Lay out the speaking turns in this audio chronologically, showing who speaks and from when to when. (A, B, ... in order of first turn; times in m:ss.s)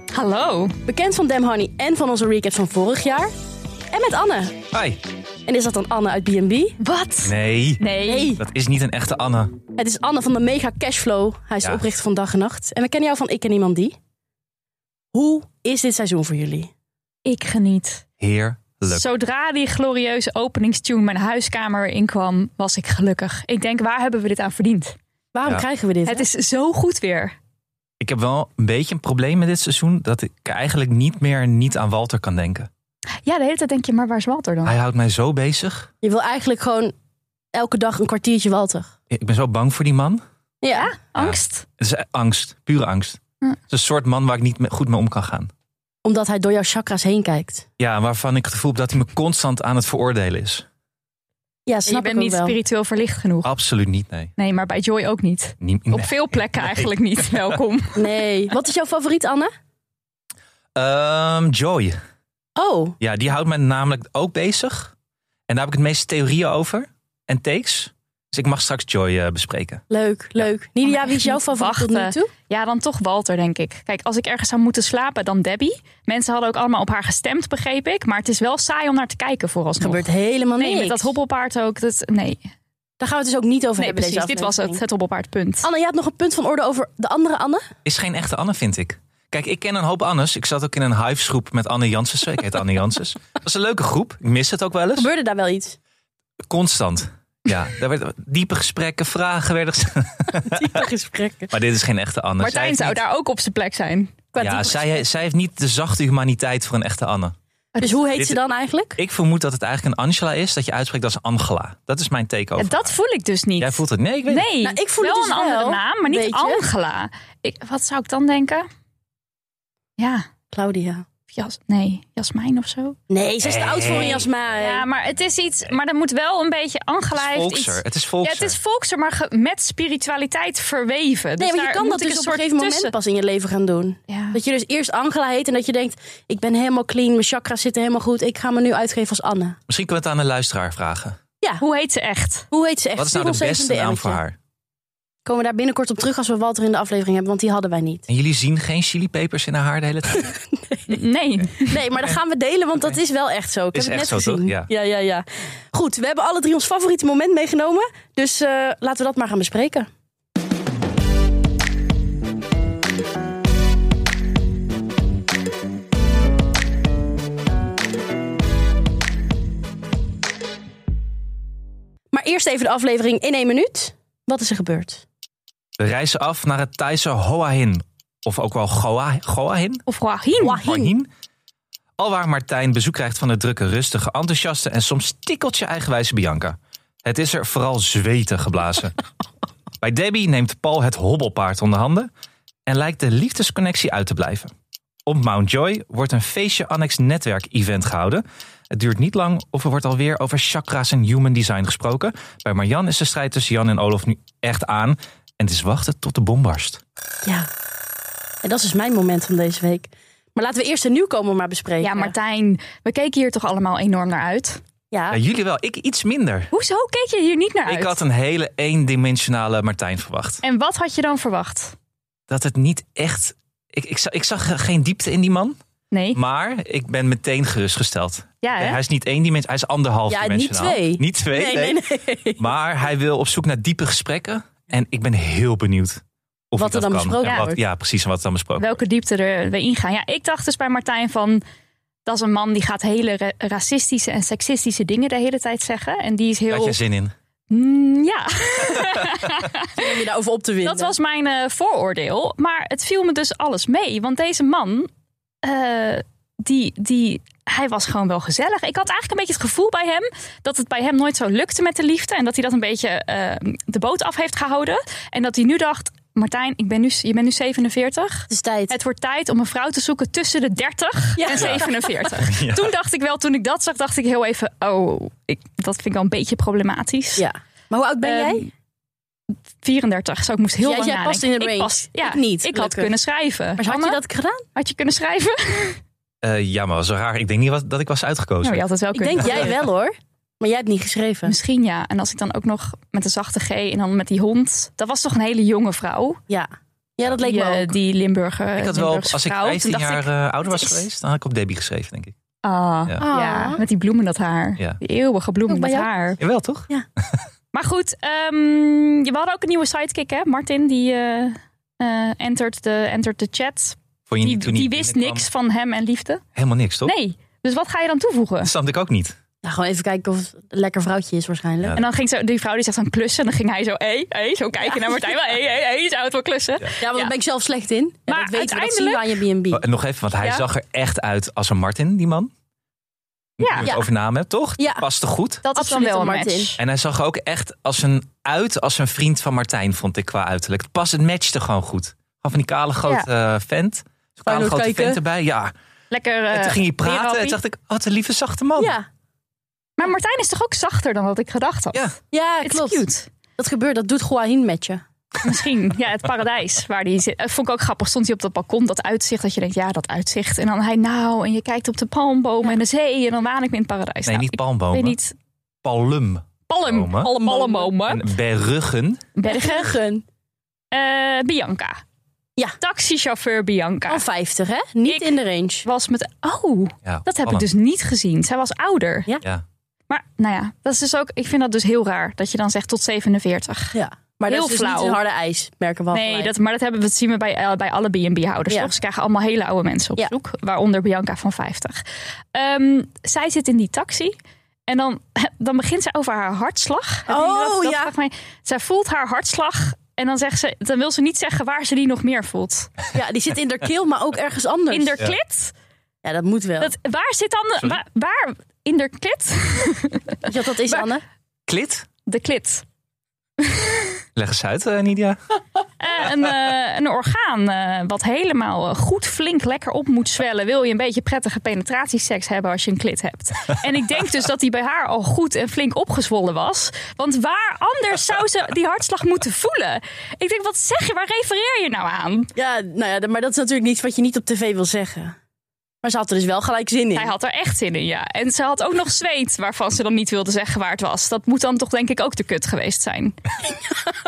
0:00.1-0:00.8 A
0:00.8-0:03.3 B
0:03.9-0:04.6 B
0:04.7-0:05.0 C
0:05.4-0:06.8 B
0:06.8-0:08.4 A
0:07.2-0:07.8 C
0:08.0-0:08.4 B
0:08.3-0:09.6 C
0:09.8-0:13.9 B
0:15.1-0:16.7 B
0:17.2-0:18.0 A
0:18.2-0:19.0 C
0:18.9-0:25.0 A
0:25.3-0:26.2 B
0:26.0-0:27.3 A
0:28.0-0:32.7 C
0:33.2-0:34.8 A
0:34.6-0:35.9 C
0:36.0-0:36.9 B
0:37.5-0:38.9 B
0:39.1-0:40.2 C
0:40.6-0:40.9 B
0:40.7-0:41.6 A
0:41.2-0:43.2 C
0:43.7-0:45.5 C
0:46.0-0:47.7 B
0:47.8-0:50.6 C
0:51.7-0:52.6 B
0:51.9-0:53.5 A
0:53.4-0:54.3 C
0:54.4-0:58.0 A
0:55.6-0:57.6 C
0:57.9-0:59.5 B
1:00.7-1:02.0 C
1:02.6-1:03.0 B
1:03.0-1:04.9 C
1:05.5-1:09.8 C
1:09.9-1:12.3 B
1:10.8-1:20.0 A
1:19.8-1:21.1 B
1:20.6-1:22.5 A
1:23.0-1:24.8 B
1:23.8-1:25.7 A
1:25.6-1:27.7 B
1:27.8-1:35.1 C
1:35.0-1:35.8 B
1:36.5-1:40.8 C
1:40.5-1:41.5 B
1:41.5-1:43.0 C
1:42.4-1:44.1 A
1:44.3-1:45.0 B
1:44.4-1:47.3 C
1:47.7-1:48.0 A
1:47.8-1:49.0 B
1:49.0-1:53.0 C
1:52.6-1:58.7 A
1:53.6-1:54.5 C
1:54.6-1:56.6 B
2:00.0-2:00.2 A
2:00.5-2:01.0 B
2:01.3-2:03.0 A
2:03.1-2:04.8 B
2:03.4-2:04.3 C
2:04.6-2:12.9 A
2:07.1-2:08.6 C
2:11.4-2:19.6 B
2:14.1-2:14.4 A
2:19.7-2:21.2 C
2:21.6-2:22.5 A
2:22.5-2:24.2 B
2:23.0-2:24.4 C
2:25.2-2:28.1 B
2:28.1-2:30.3 C
2:30.9-2:31.8 A
2:31.7-2:39.9 B
2:33.7-2:34.7 C
2:52.1-2:55.0 B
2:55.8-2:59.8 C
2:59.9-3:00.7 A
3:00.4-3:00.9 B
3:00.6-3:01.1 C
3:02.0-3:08.9 C
3:09.8-3:12.1 C
3:12.6-3:14.5 C
3:15.0-3:26.8 C
3:28.4-3:32.1 B
3:31.8-3:34.6 A
3:34.9-3:35.2 B
3:35.1-3:36.5 C
3:36.5-3:38.0 A
3:37.6-3:40.4 C
3:40.4-3:41.7 A
3:42.3-3:45.6 C
3:45.9-3:46.2 A
3:46.1-3:58.8 C
3:48.4-3:48.8 A
3:50.1-3:52.4 B
3:56.6-3:57.6 B
3:57.2-3:57.5 A
3:58.6-4:01.4 A
4:02.0-4:06.8 A
4:06.5-4:07.1 C
4:07.5-4:09.9 A
4:09.7-4:10.9 B
4:10.6-4:14.9 A
4:15.4-4:37.2 A
4:28.3-4:28.7 B
4:31.2-4:31.7 B
4:31.3-4:32.7 C
4:37.2-4:38.5 B
4:38.0-4:38.5 A
4:39.6-4:44.0 A
4:40.6-4:42.9 B
4:43.6-4:44.4 B
4:44.6-4:45.8 A
4:46.2-4:48.6 C
4:48.4-4:49.5 A
4:48.9-4:51.3 B
4:49.2-4:49.5 C
4:51.2-4:56.2 A
4:56.3-4:57.8 B
4:57.2-5:00.8 A
4:58.6-5:02.1 C
5:02.4-5:06.2 A
5:03.0-5:03.6 B
5:05.5-5:05.9 B
5:06.2-5:07.2 C
5:07.5-5:16.2 A
5:14.1-5:15.2 C
5:16.3-5:16.9 C
5:16.8-5:18.5 A
5:18.4-5:19.2 C
5:19.4-5:21.8 B
5:21.6-5:21.8 C
5:21.8-5:27.1 A
5:24.6-5:25.1 B
5:26.8-5:29.6 B
5:28.1-5:29.0 A
5:29.5-5:32.3 C
5:33.4-5:35.4 C
5:33.4-5:33.7 A
5:34.6-5:34.8 B
5:35.4-5:36.6 A
5:35.5-5:36.5 B
5:36.6-5:45.5 C
5:44.2-5:45.0 B
5:45.9-5:47.4 A
5:46.3-5:48.7 C
5:48.6-5:48.8 B
5:49.8-5:53.1 A
5:52.1-5:52.8 B
5:53.4-5:54.8 B
5:55.2-6:05.1 A
6:04.1-6:05.0 C
6:05.6-6:07.1 C
6:06.5-6:08.0 A
6:07.0-6:07.7 B
6:07.9-6:09.1 C
6:09.1-6:09.8 A
6:09.2-6:10.0 B
6:10.7-6:11.8 A
6:12.6-6:14.0 A
6:13.9-6:15.6 B
6:14.9-6:15.1 A
6:15.6-6:19.2 A
6:16.8-6:17.5 C
6:19.9-6:23.8 A
6:23.7-6:26.3 B
6:24.3-6:25.0 A
6:25.9-6:31.8 A
6:32.3-6:34.2 A
6:34.7-6:42.7 A
6:37.1-6:37.9 B
6:42.9-6:45.0 B
6:44.7-6:45.5 A
6:46.0-6:46.7 B
6:46.6-6:50.8 A
6:50.3-6:51.0 B
6:51.5-6:51.9 C
6:52.1-6:52.6 A
6:53.4-6:53.9 A
6:54.2-6:55.2 C
6:55.8-7:12.3 A
7:12.4-7:15.2 B
7:15.8-7:17.1 B
7:16.9-7:23.2 A